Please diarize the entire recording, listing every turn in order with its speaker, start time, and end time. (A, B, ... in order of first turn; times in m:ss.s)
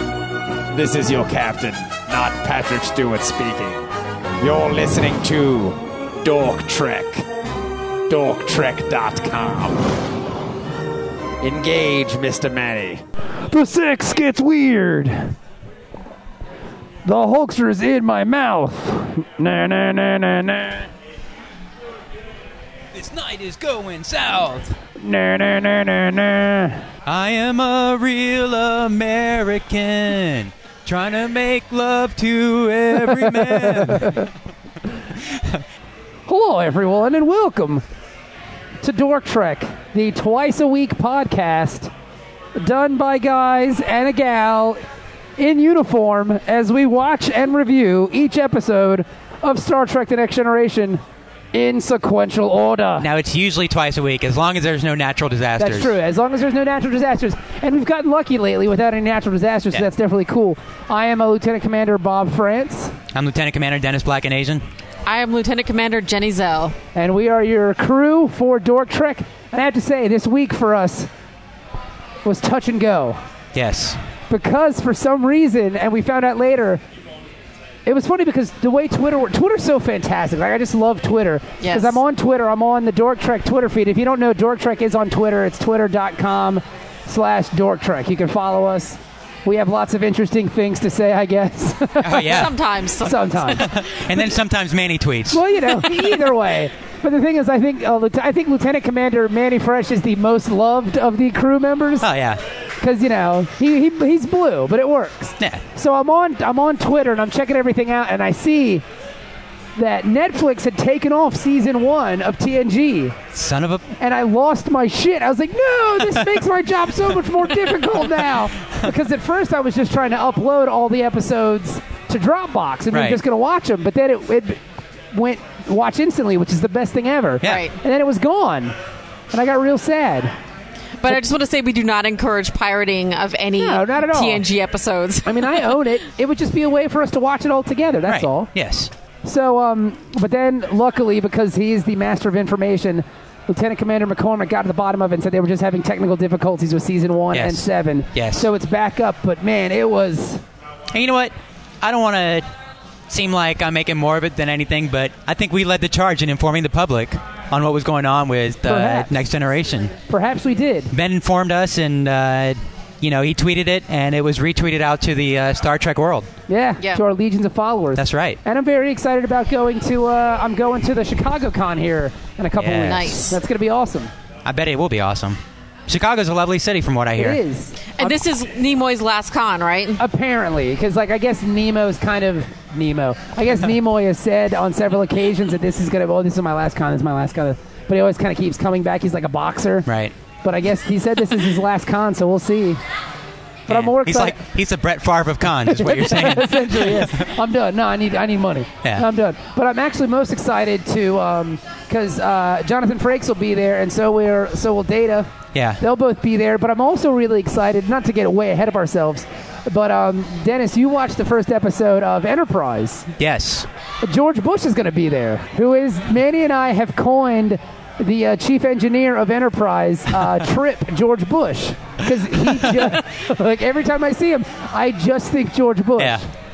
0:00.7-0:03.8 A
0:00.8-0:03.6 B
0:04.4-0:07.2 A
0:04.4-0:05.6 B
0:06.3-0:07.0 B
0:08.1-0:09.8 A
0:08.1-0:09.6 B
0:11.4-0:13.0 A
0:11.8-0:12.3 B
0:13.5-0:15.3 B
0:17.0-0:20.9 B
0:22.9-0:24.7 C
0:24.9-0:26.8 B
0:27.0-0:34.3 C
0:33.0-0:34.3 B
0:35.2-0:35.6 C
0:36.3-0:37.8 B
0:38.8-0:41.9 B
0:42.6-0:44.8 B
0:45.4-0:51.0 B
0:51.5-0:53.1 B
0:53.0-0:55.9 C
0:55.6-1:02.9 B
1:03.1-1:04.6 C
1:05.0-1:06.8 D
1:06.9-1:11.1 B
1:12.2-1:13.2 B
1:13.5-1:14.0 C
1:14.3-1:16.8 B
1:17.8-1:32.4 B
1:21.6-1:22.0 D
1:32.0-1:32.5 C
1:32.0-1:33.8 D
1:33.0-1:33.6 B
1:33.5-1:36.1 C
1:35.3-1:42.1 B
1:42.0-1:42.4 C
1:42.8-1:48.8 B
1:49.8-1:53.2 B
1:53.3-1:53.8 C
1:54.0-2:04.6 B
1:56.0-1:56.4 C
2:02.9-2:03.2 C
2:05.1-2:08.8 B
2:07.4-2:07.7 D
2:09.3-2:10.3 B
2:11.0-2:15.7 D
2:13.6-2:14.4 B
2:15.2-2:18.5 B
2:18.0-2:18.9 C
2:19.2-2:30.4 B
2:27.3-2:28.5 C
2:30.9-2:32.5 C
2:33.1-2:39.9 C
2:38.6-2:39.1 B
2:40.1-2:40.9 B
2:40.9-2:46.3 C
2:46.5-2:54.1 B
2:47.9-2:48.4 C
2:52.6-2:53.1 C
2:52.7-2:53.4 D
2:54.4-2:57.4 C
2:57.2-2:58.2 B
2:58.0-3:00.0 D
3:00.0-3:09.9 B
3:09.8-3:10.1 C
3:10.4-3:12.8 B
3:13.7-3:14.4 B
3:13.7-3:17.3 C
3:15.7-3:25.3 B
3:25.5-3:25.8 C
3:25.8-3:33.1 B
3:33.2-3:33.7 C
3:34.0-3:46.2 B
3:42.2-3:43.0 C
3:46.0-3:46.2 C